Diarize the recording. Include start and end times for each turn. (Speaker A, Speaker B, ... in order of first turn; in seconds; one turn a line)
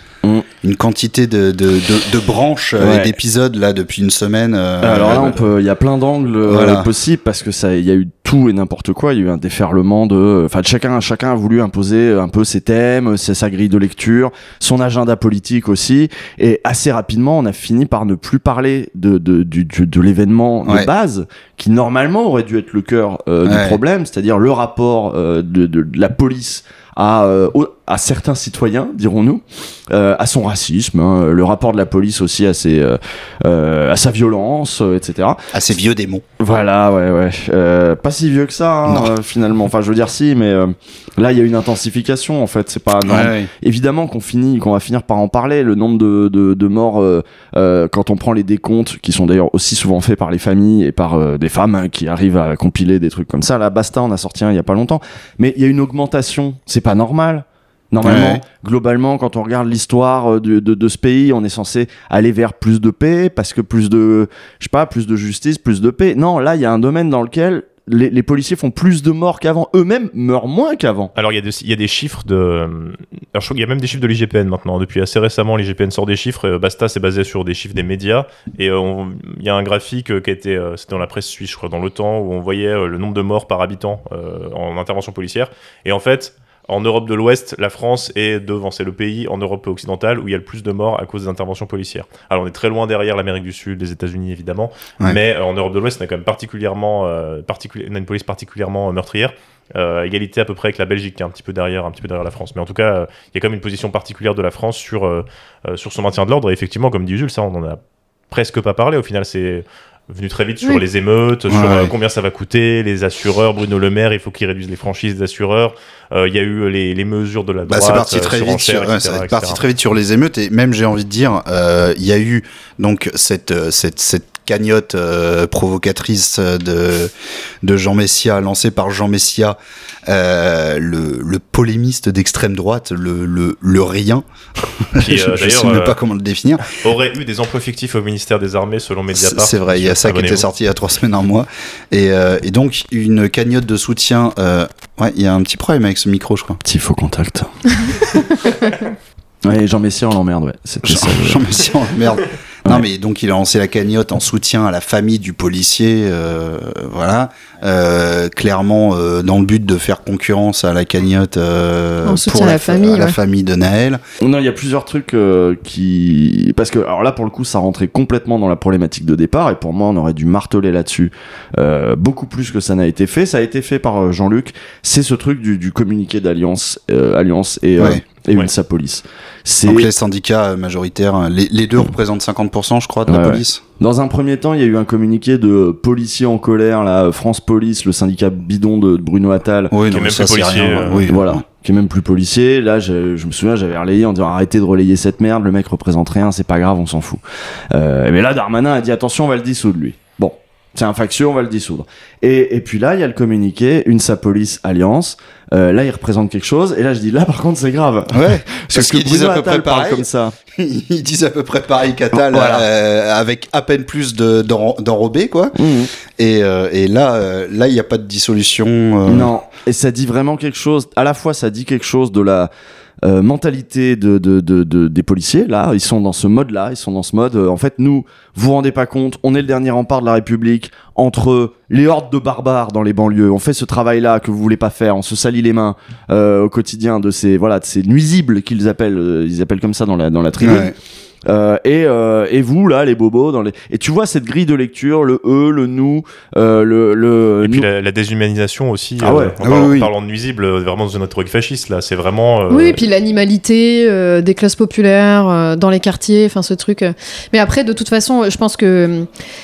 Speaker A: 0.6-5.5
Speaker B: 2.8-3.1
Speaker B: 4.8-35.4
Speaker A: 6.4-6.9
Speaker A: 23.4-23.8
Speaker A: 35.5-36.2
Speaker B: 36.4-71.1
Speaker A: 38.9-39.1
Speaker A: 43.0-43.5
Speaker A: 58.0-58.4
Speaker C: 71.2-107.8
Speaker C: 108.3-119.6
Speaker A: 111.5-111.9
Speaker A: 117.7-127.1
Speaker A: 127.6-134.2
Speaker A: 134.8-136.7
Speaker C: 135.0-136.0
Speaker C: 136.7-140.5
Speaker A: 139.1-146.6
Speaker B: 146.6-147.7
Speaker B: 149.4-151.4
Speaker A: 150.8-164.0
Speaker D: 162.0-163.2
Speaker B: 164.2-179.9
Speaker A: 179.6-183.6
Speaker B: 183.1-189.7
Speaker A: 189.7-191.4
Speaker C: 189.9-191.1
Speaker B: 191.1-210.3
Speaker A: 208.1-215.6
Speaker B: 212.2-212.7
Speaker B: 215.6-215.9
Speaker A: 216.1-219.3
Speaker B: 219.1-222.5
Speaker B: 223.0-240.7
Speaker A: 240.4-240.7
Speaker B: 241.2-247.7
Speaker C: 247.4-252.8
Speaker B: 249.0-249.3
Speaker A: 249.4-249.9
Speaker D: 252.5-259.1